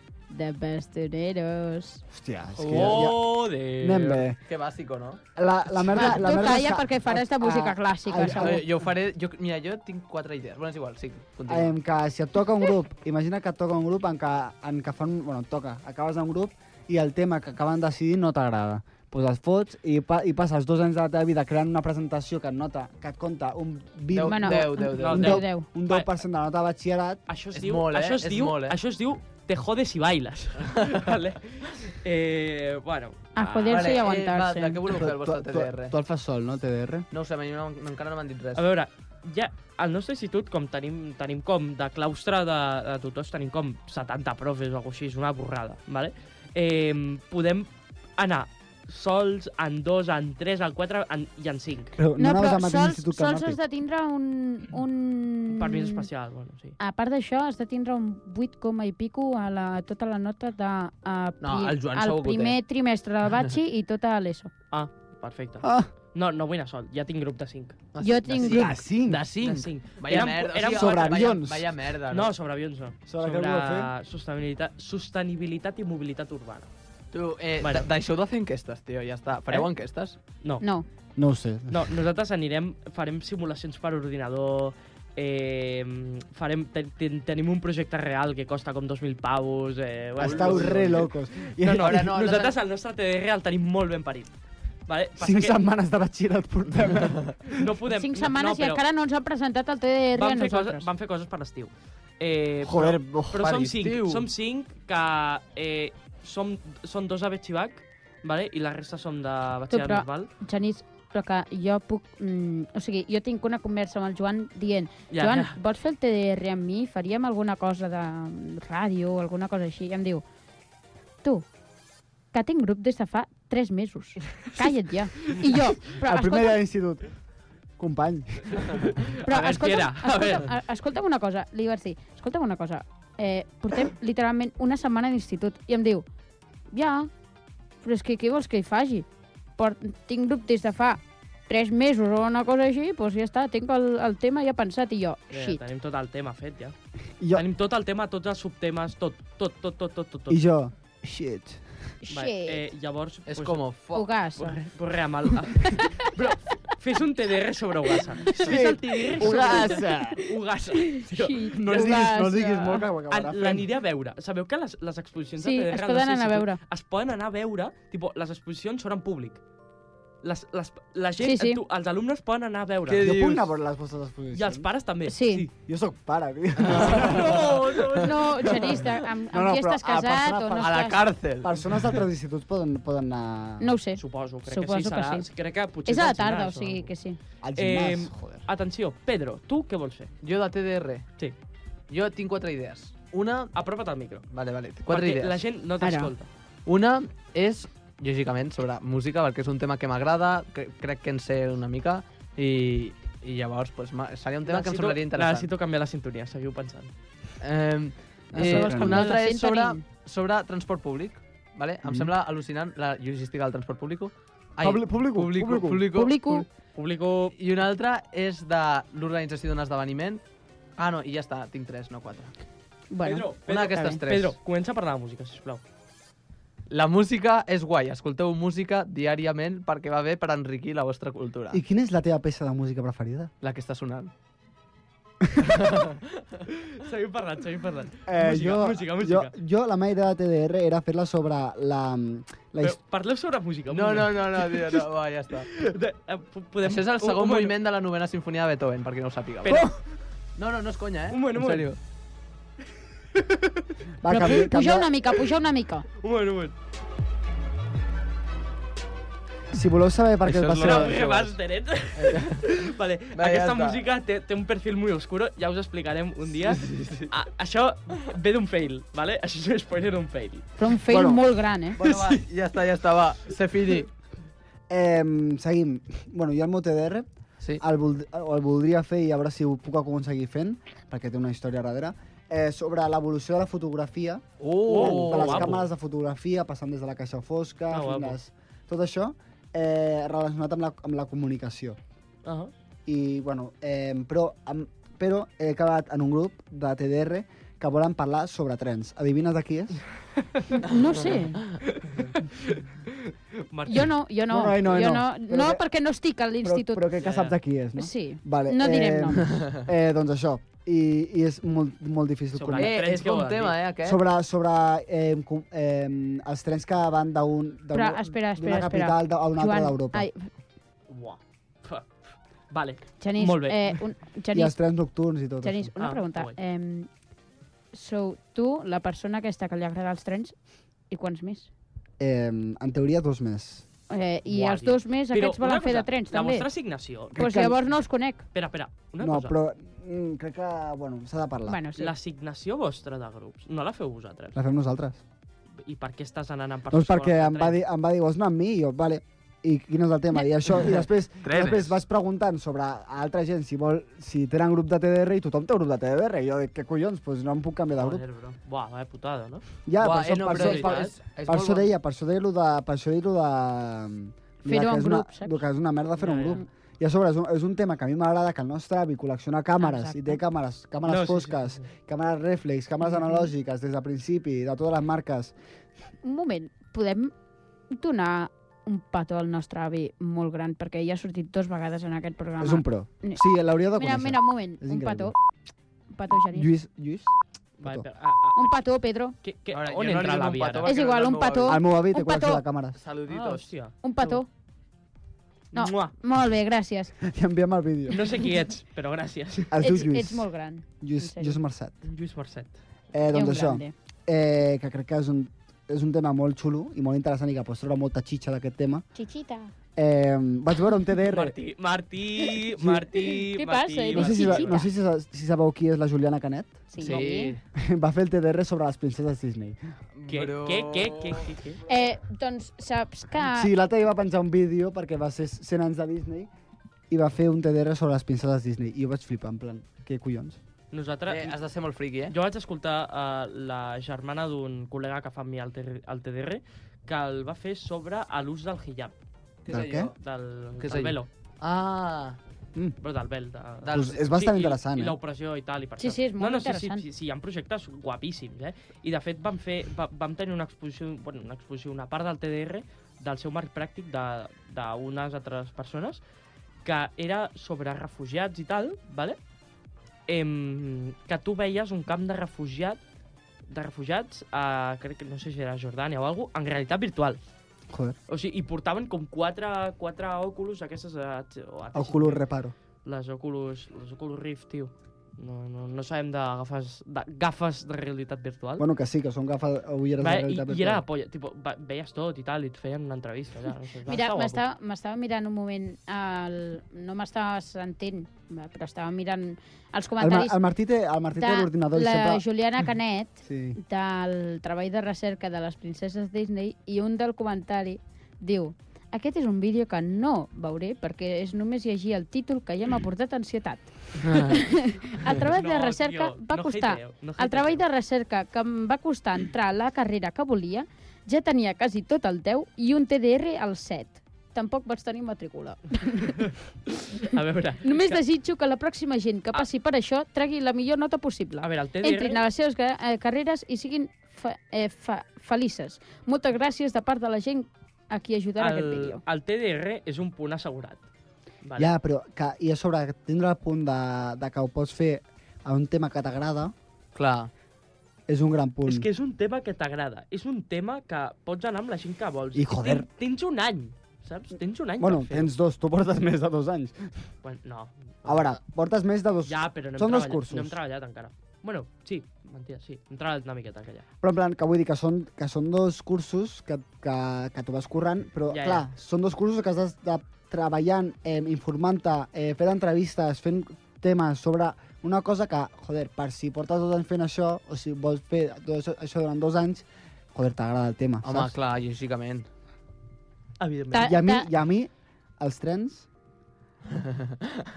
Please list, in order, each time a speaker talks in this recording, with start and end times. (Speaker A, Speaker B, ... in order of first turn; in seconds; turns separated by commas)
Speaker A: 0.3-2.0, Speaker B: 2.1-4.4, Speaker C: 2.6-4.2, Speaker D: 2.6-3.0, Speaker D: 4.4-5.2, Speaker B: 5.3-8.7, Speaker A: 5.9-8.6, Speaker D: 8.2-11.7, Speaker B: 11.5-27.2, Speaker D: 24.1-25.4, Speaker A: 24.2-25.7, Speaker C: 24.9-26.1, Speaker C: 27.3-34.0, Speaker D: 27.5-28.8, Speaker A: 33.3-34.8, Speaker D: 33.7-35.9, Speaker B: 34.9-37.1, Speaker D: 37.1-38.6, Speaker C: 38.5-51.9, Speaker B: 52.0-53.6, Speaker A: 52.2-56.0, Speaker C: 55.5-56.8, Speaker A: 56.8-64.5, Speaker D: 61.4-62.6, Speaker C: 64.7-67.8, Speaker B: 65.6-65.9, Speaker D: 67.9-72.3, Speaker A: 68.0-68.7, Speaker B: 68.4-69.2, Speaker C: 69.4-71.3, Speaker B: 70.2-71.7, Speaker C: 72.1-76.7, Speaker B: 73.1-73.9, Speaker D: 77.1-80.2, Speaker C: 77.6-77.9, Speaker A: 80.6-80.8, Speaker B: 81.2-82.0, Speaker C: 81.7-91.0, Speaker D: 90.2-91.1, Speaker B: 90.2-92.1, Speaker C: 91.6-94.3, Speaker D: 91.7-92.5, Speaker C: 94.9-95.5, Speaker B: 95.2-97.7, Speaker C: 97.5-98.8, Speaker A: 97.9-100.9, Speaker C: 100.1-110.3, Speaker B: 102.6-103.5, Speaker D: 103.3-104.3, Speaker A: 109.7-120.2, Speaker C: 115.1-115.5, Speaker A: 122.3-126.6, Speaker C: 125.3-125.5, Speaker B: 126.0-127.1, Speaker B: 127.8-128.9, Speaker C: 129.0-130.5, Speaker A: 129.2-136.1, Speaker A: 136.7-137.1, Speaker A: 137.8-145.6, Speaker C: 145.3-146.7, Speaker B: 147.2-147.4, Speaker C: 147.3-150.4, Speaker B: 150.3-151.6, Speaker A: 152.0-152.6, Speaker C: 152.1-153.8, Speaker D: 153.3-154.1, Speaker A: 153.9-154.6, Speaker C: 154.3-162.1, Speaker A: 155.6-156.0, Speaker B: 158.4-160.2, Speaker A: 159.2-159.8, Speaker A: 160.8-162.8, Speaker B: 161.5-163.7, Speaker C: 163.1-169.4, Speaker A: 165.4-166.6, Speaker C: 170.2-173.2, Speaker A: 171.2-171.6, Speaker D: 172.9-173.5, Speaker B: 173.0-174.7, Speaker C: 174.3-175.5, Speaker A: 175.1-175.5, Speaker B: 175.7-178.0, Speaker D: 176.6-177.8, Speaker C: 176.7-178.7, Speaker A: 178.0-181.0, Speaker B: 179.3-183.8, Speaker D: 180.6-182.0, Speaker A: 183.6-185.2, Speaker C: 183.9-186.9, Speaker A: 185.8-187.2, Speaker B: 187.4-188.4, Speaker C: 187.6-190.1, Speaker D: 190.2-191.1, Speaker D: 191.9-193.5, Speaker C: 193.5-194.2, Speaker D: 194.3-195.4, Speaker C: 194.9-196.3, Speaker A: 195.8-196.1, Speaker D: 196.7-205.5, Speaker C: 204.4-206.9, Speaker D: 207.4-216.4, Speaker B: 208.3-209.1, Speaker A: 208.4-209.8, Speaker B: 211.8-212.1, Speaker B: 214.6-215.9, Speaker A: 215.9-216.4, Speaker C: 216.7-217.3, Speaker D: 217.3-220.2, Speaker D: 220.8-222.3, Speaker A: 222.9-223.2, Speaker C: 223.0-225.6, Speaker D: 223.5-224.3, Speaker D: 226.7-231.6, Speaker B: 231.5-233.3, Speaker D: 233.4-234.1, Speaker B: 235.2-235.5, Speaker D: 235.4-236.2, Speaker C: 236.7-239.3, Speaker B: 238.1-242.8, Speaker C: 242.6-244.8, Speaker D: 243.7-245.5, Speaker C: 245.5-247.5, Speaker D: 246.6-249.7, Speaker C: 249.4-249.7, Speaker B: 249.5-249.7, Speaker D: 250.4-251.8, Speaker C: 251.1-251.7, Speaker C: 253.1-253.6, Speaker B: 254.0-254.9, Speaker A: 254.1-255.8, Speaker C: 256.0-256.5, Speaker B: 259.5-260.9, Speaker D: 260.2-261.4, Speaker C: 260.6-270.4, Speaker D: 261.9-262.4, Speaker D: 263.1-263.8, Speaker D: 266.4-267.1, Speaker A: 270.6-271.8, Speaker B: 270.9-271.2, Speaker D: 271.8-273.9, Speaker C: 271.8-272.2, Speaker B: 274.7-291.8, Speaker D: 284.4-285.6, Speaker C: 284.7-285.6, Speaker C: 287.7-288.2, Speaker C: 292.2-292.5, Speaker B: 292.9-299.8, Speaker A: 300.5-301.4, Speaker C: 301.7-303.9, Speaker A: 303.7-306.9, Speaker B: 304.3-305.6, Speaker B: 306.4-312.8, Speaker C: 307.0-307.3, Speaker A: 307.8-309.2, Speaker C: 312.3-313.6, Speaker D: 312.6-314.0, Speaker B: 313.8-320.1, Speaker A: 317.7-320.3, Speaker C: 320.9-323.8, Speaker A: 323.0-324.6, Speaker B: 324.3-325.7, Speaker A: 325.4-326.9, Speaker C: 325.8-326.4, Speaker A: 327.7-330.4, Speaker A: 330.9-331.5, Speaker B: 332.0-333.6, Speaker A: 333.9-336.5, Speaker C: 334.3-337.2, Speaker B: 337.1-337.6, Speaker A: 337.1-338.2, Speaker C: 338.3-339.3, Speaker B: 339.0-341.6, Speaker A: 341.5-341.9, Speaker C: 341.8-344.4, Speaker B: 344.3-345.0, Speaker C: 345.6-347.6, Speaker B: 346.7-358.0, Speaker D: 351.2-351.8, Speaker C: 357.7-359.4, Speaker B: 359.6-375.3, Speaker D: 359.8-361.7, Speaker C: 360.2-360.9, Speaker A: 364.4-365.4, Speaker C: 366.0-366.4, Speaker A: 369.6-370.2, Speaker C: 370.8-371.7, Speaker A: 376.0-377.1, Speaker A: 377.7-383.2, Speaker B: 382.4-385.1, Speaker A: 383.7-385.1, Speaker A: 385.9-386.5, Speaker B: 386.3-387.9, Speaker C: 387.6-388.6, Speaker A: 388.4-389.1, Speaker C: 389.2-390.8, Speaker D: 389.5-391.6, Speaker A: 390.6-392.4, Speaker B: 391.4-392.8, Speaker D: 392.7-393.5, Speaker C: 393.1-394.2, Speaker A: 393.8-394.3, Speaker C: 395.5-395.9, Speaker A: 395.5-396.9, Speaker B: 397.0-398.0, Speaker C: 397.9-399.5, Speaker B: 399.5-400.3, Speaker A: 399.6-401.4, Speaker B: 400.8-401.7, Speaker C: 401.8-402.5, Speaker B: 402.9-408.8, Speaker A: 403.1-403.7, Speaker A: 408.9-409.5, Speaker B: 409.8-411.4, Speaker C: 411.0-414.5, Speaker B: 412.6-413.0, Speaker A: 413.3-414.7, Speaker B: 413.9-416.7, Speaker A: 416.7-417.3, Speaker D: 416.8-417.4, Speaker B: 417.6-419.6, Speaker D: 419.9-421.3, Speaker C: 420.1-421.6, Speaker A: 421.7-423.5, Speaker B: 423.2-426.3, Speaker B: 426.9-430.4, Speaker C: 430.7-431.4, Speaker D: 431.1-432.1, Speaker C: 432.1-438.9, Speaker D: 439.4-439.9, Speaker B: 439.5-439.9, Speaker C: 439.9-441.1, Speaker D: 440.6-442.2, Speaker C: 442.8-456.0, Speaker D: 443.6-444.0, Speaker B: 443.7-445.0, Speaker A: 445.8-446.8, Speaker C: 456.6-459.2, Speaker C: 460.1-462.8, Speaker C: 463.5-467.2, Speaker B: 467.7-467.9, Speaker C: 468.1-472.2, Speaker B: 471.7-472.5, Speaker C: 472.8-478.6, Speaker B: 478.6-480.8, Speaker C: 480.0-484.4, Speaker A: 483.9-490.4, Speaker B: 490.0-492.2, Speaker A: 491.1-516.3, Speaker B: 493.2-493.6, Speaker D: 504.0-504.3, Speaker C: 505.2-507.6, Speaker C: 516.2-518.0, Speaker A: 517.6-529.0, Speaker C: 521.4-522.2, Speaker C: 528.4-530.8, Speaker C: 531.4-531.7, Speaker B: 531.6-536.5, Speaker D: 536.9-537.3, Speaker B: 538.1-538.9, Speaker C: 538.6-545.3, Speaker B: 542.3-542.9, Speaker B: 544.8-547.0, Speaker C: 547.2-548.4, Speaker B: 548.0-550.6, Speaker C: 549.2-553.8, Speaker B: 554.0-571.3, Speaker C: 558.3-558.6, Speaker D: 571.0-572.3, Speaker D: 573.4-573.7, Speaker A: 573.7-574.3, Speaker B: 573.7-575.9, Speaker D: 576.8-577.1